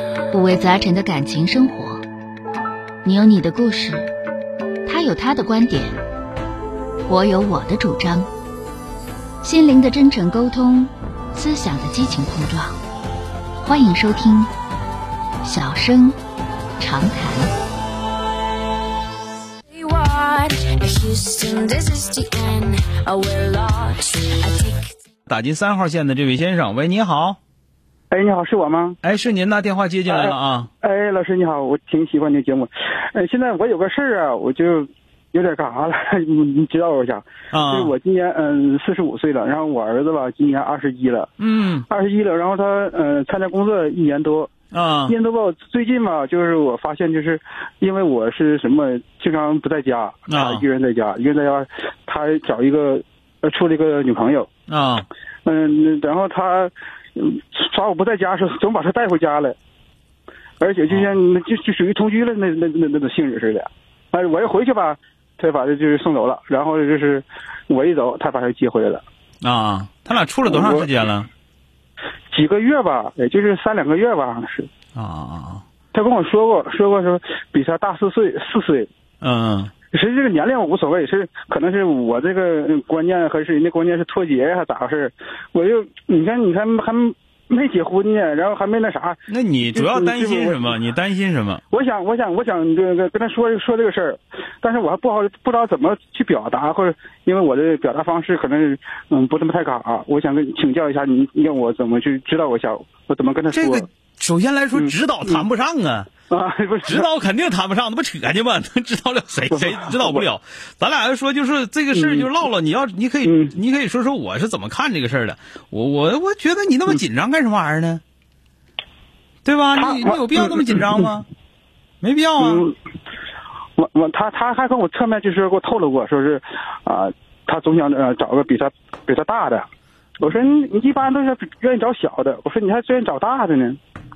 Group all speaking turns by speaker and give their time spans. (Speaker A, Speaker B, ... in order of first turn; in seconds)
Speaker A: 0.3-2.0, 3.0-4.1, 4.8-6.0, 7.1-8.3, 9.4-12.8, 13.6-14.5, 15.4-16.2, 16.8-17.5
Speaker B: 19.7-24.9
Speaker C: 25.3-27.4, 29.0-30.7, 37.5-37.9, 41.4-41.9, 44.7-45.1, 50.3-50.6, 54.7-55.1, 69.4-71.3, 75.0-75.6, 79.2-79.7, 89.3-91.6, 103.5-106.1, 106.8-118.0, 119.4-121.2, 122.0-122.7
Speaker D: 28.1-29.0, 30.1-41.3, 41.9-44.5, 45.1-54.5, 55.4-59.6, 60.6-69.0, 70.5-70.9, 72.3-74.7, 75.9-78.9, 79.9-90.7, 91.7-103.9, 104.7-105.4, 106.3-107.1, 109.5-110.2, 111.9-112.3, 113.2-113.5, 119.7-121.0, 122.4-122.7, 123.8-129.6, 130.2-133.8